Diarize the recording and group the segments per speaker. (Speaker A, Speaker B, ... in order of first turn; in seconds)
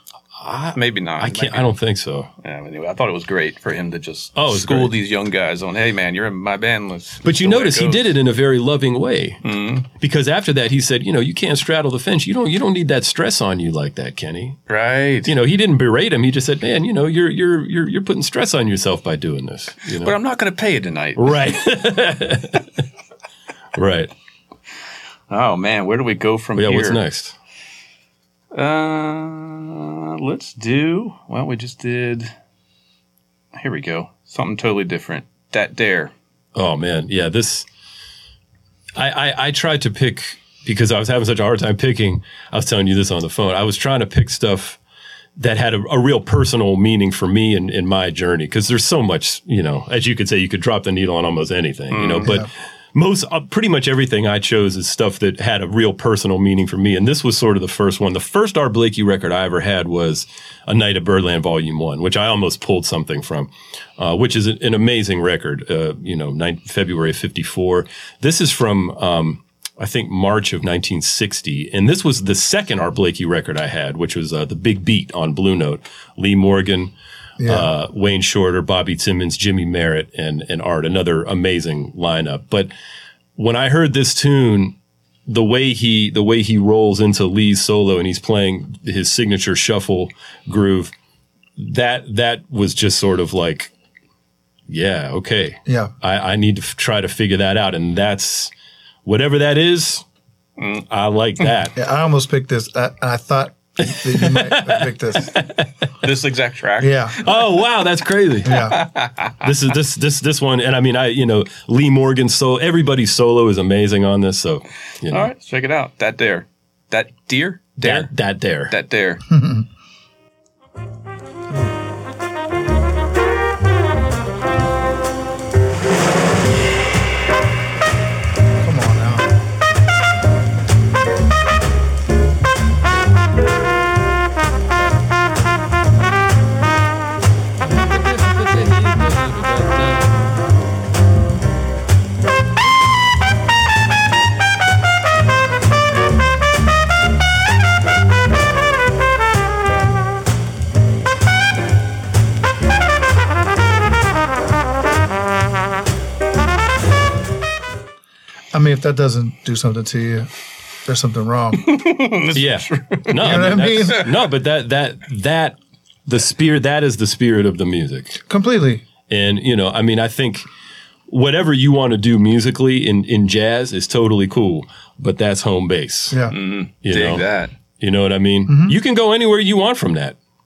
Speaker A: 0.4-2.3, 4.3-4.9, 7.2-14.6, 15.2-20.1, 21.1-22.8, 23.7-24.1, 26.6-27.4, 36.5-37.7, 38.9-44.8, 45.4-76.9, 77.4-82.7, 83.3-84.8, 85.3-90.9, 91.6-93.7, 94.7-98.5, 99.0-100.0, 100.9-101.8, 103.8-105.7, 107.2-108.8, 109.4-115.3, 117.8-118.7, 137.7-140.2, 162.3-168.2, 169.1-170.4, 171.1-176.2, 176.8-177.2, 177.8-180.2
Speaker B: 0.7-1.7, 2.4-8.1, 9.4-9.9, 14.7-15.3, 20.0-21.4, 25.3-27.0, 28.5-32.3, 33.5-36.1, 51.9-52.3, 100.6-100.8, 106.0-107.4, 108.5-109.5, 115.1-118.1, 118.7-119.2, 161.6-164.0, 176.3-177.5
Speaker C: 77.4-77.7, 95.7-95.9, 101.7-105.4, 106.8-107.2, 108.4-108.8, 119.3-119.7, 128.6-129.3, 158.5-160.3, 160.8-161.7, 163.2-164.1, 168.3-168.8, 178.5-178.8